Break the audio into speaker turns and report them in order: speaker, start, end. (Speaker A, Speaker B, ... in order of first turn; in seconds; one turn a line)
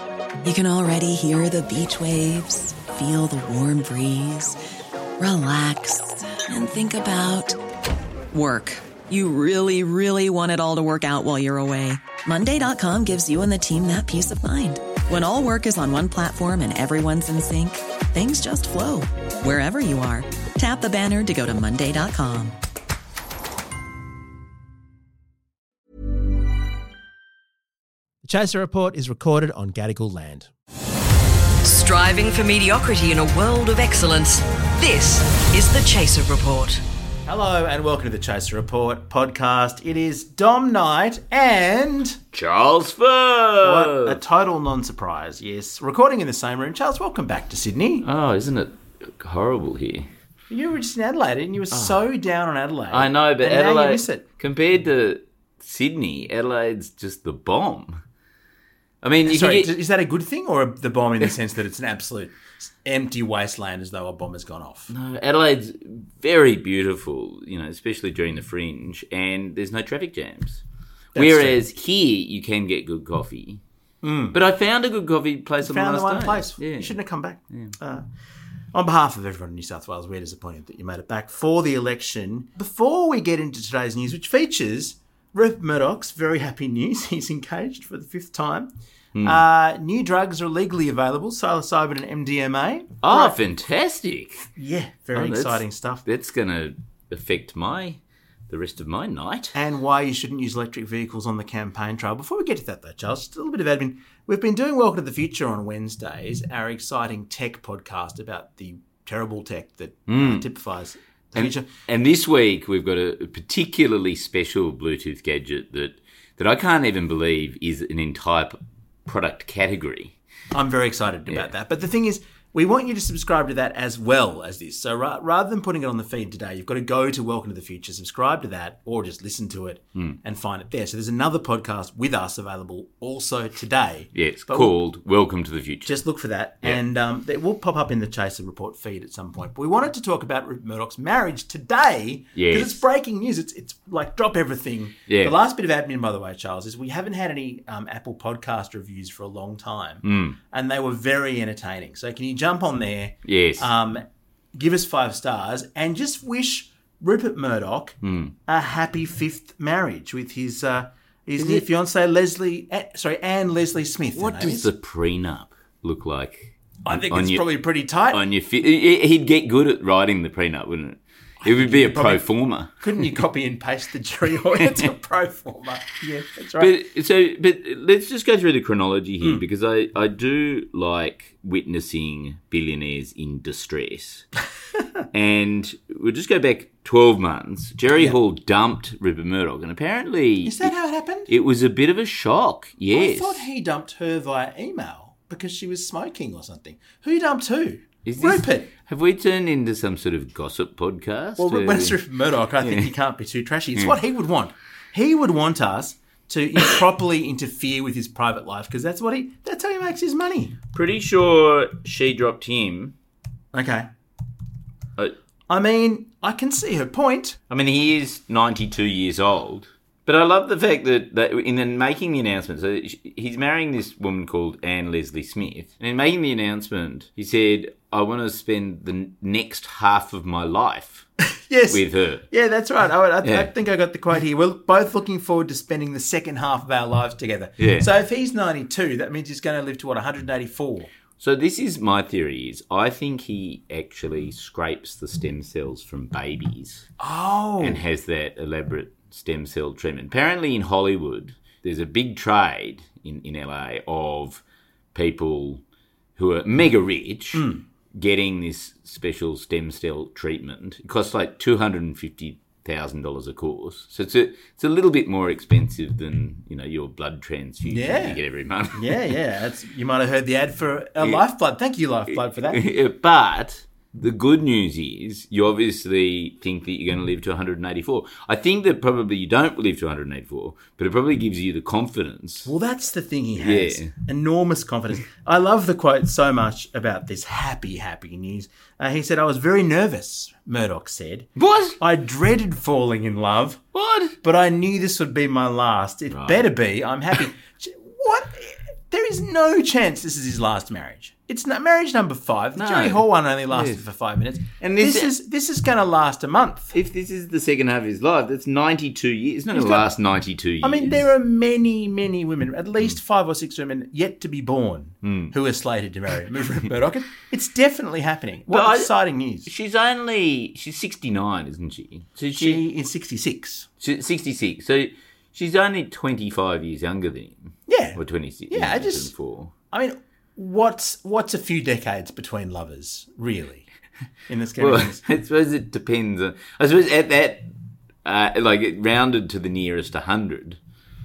Speaker A: 0.4-4.6
Speaker A: 5.2-7.6
Speaker A: 8.3-22.6
Speaker B: 28.2-30.5
Speaker C: 31.7-36.8
Speaker B: 37.3-42.2
Speaker D: 42.3-44.2
Speaker B: 43.6-48.1
Speaker D: 48.0-50.1
Speaker B: 50.5-54.2
Speaker D: 51.7-52.0
Speaker D: 52.9-58.0
Speaker D: 59.0-59.7
Speaker B: 59.2-64.9
Speaker D: 64.9-70.6
Speaker B: 71.2-71.6
Speaker D: 71.2-73.6
Speaker B: 74.0-74.4
Speaker D: 74.3-77.0
Speaker B: 75.6-78.1
Speaker B: 78.7-88.7
Speaker D: 89.1-89.4
Speaker B: 89.2-93.4
Speaker D: 93.0-94.5
Speaker B: 94.6-96.0
Speaker D: 95.2-99.5
Speaker B: 99.5-111.7
Speaker D: 110.1-110.5
Speaker D: 111.3-120.1
Speaker B: 120.5-134.8
Speaker D: 134.2-136.0
Speaker B: 135.9-164.7
Speaker D: 142.4-142.8
Speaker D: 145.1-145.4
Speaker D: 150.0-150.4
Speaker D: 153.2-153.7
Speaker D: 158.0-158.3
Speaker D: 161.4-161.7
Speaker D: 164.2-173.2
Speaker B: 166.8-168.2
Speaker B: 171.4-172.2
Speaker B: 172.8-176.7
Speaker D: 176.6-184.3
Speaker D: 185.1-190.7
Speaker B: 190.4-191.3
Speaker D: 191.3-193.5
Speaker B: 192.9-198.7
Speaker D: 198.1-202.0
Speaker B: 201.4-210.6
Speaker D: 202.6-202.9
Speaker D: 210.7-212.9
Speaker B: 213.5-213.9
Speaker B: 215.5-217.4
Speaker D: 217.5-231.1
Speaker B: 231.5-240.9
Speaker D: 231.7-232.3
Speaker D: 233.2-233.5
Speaker D: 237.6-237.9
Speaker D: 241.2-246.9
Speaker B: 247.0-247.8
Speaker D: 247.6-254.4
Speaker D: 254.9-255.6
Speaker D: 256.2-269.1
Speaker B: 257.3-257.6
Speaker B: 267.6-268.2
Speaker B: 268.7-272.6
Speaker D: 272.5-282.5
Speaker B: 282.4-293.6
Speaker D: 283.4-283.9
Speaker D: 291.4-291.8
Speaker D: 293.7-294.1
Speaker B: 294.2-306.8
Speaker D: 296.1-296.5
Speaker D: 302.6-303.8
Speaker D: 304.6-305.1
Speaker D: 306.7-311.1
Speaker B: 309.5-309.9
Speaker B: 310.6-319.5
Speaker D: 315.0-315.3
Speaker D: 318.5-318.9
Speaker D: 319.5-322.6
Speaker B: 322.4-323.7
Speaker D: 323.8-329.5
Speaker B: 327.7-329.1
Speaker B: 329.7-333.7
Speaker B: 334.3-335.0
Speaker D: 334.6-337.5
Speaker D: 338.1-340.6